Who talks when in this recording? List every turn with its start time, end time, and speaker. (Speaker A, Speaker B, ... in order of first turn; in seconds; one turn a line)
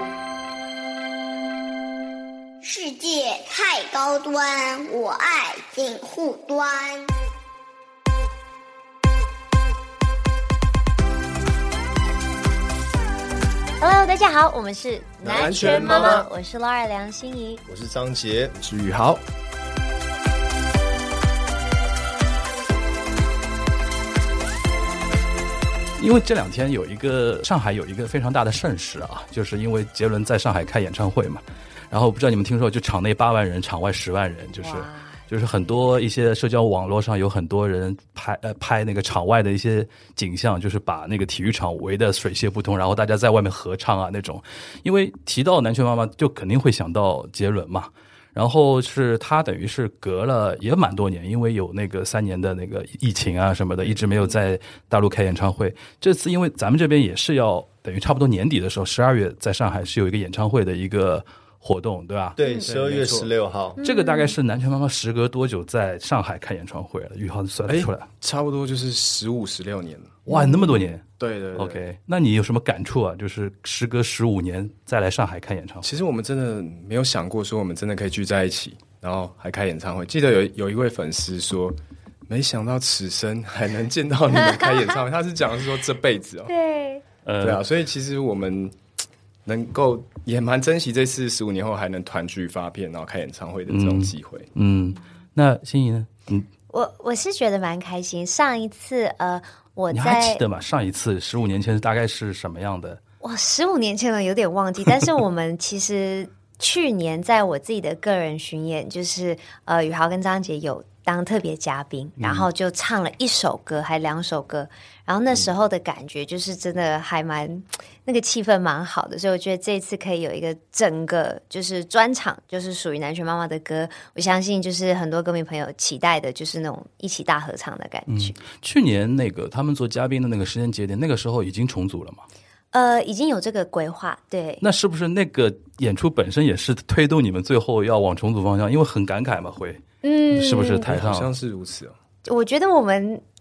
Speaker A: 2.6-7.1
Speaker B: 13.8-17.6
Speaker C: 15.2-16.3
Speaker D: 15.2-16.2
Speaker C: 17.7-18.5
Speaker D: 18.6-19.2
Speaker E: 26.0-62.4
Speaker B: 34.6-35.2
Speaker C: 62.4-63.8
Speaker D: 62.6-63.3
Speaker B: 63.8-64.3
Speaker E: 63.8-68.1
Speaker D: 67.7-70.2
Speaker E: 70.3-75.9
Speaker B: 70.3-70.9
Speaker D: 71.2-71.8
Speaker D: 75.8-86.5
Speaker B: 86.5-87.0
Speaker E: 87.3-87.6
Speaker D: 87.4-88.8
Speaker D: 89.5-94.5
Speaker E: 93.7-96.5
Speaker B: 96.7-100.4
Speaker E: 99.9-103.0
Speaker B: 103.2-128.3
Speaker E: 112.2-112.5
Speaker E: 128.1-132.2
Speaker B: 132.7-134.6
Speaker E: 134.6-141.3
Speaker B: 140.0-140.9
Speaker D: 140.8-141.9
Speaker B: 142.2-143.2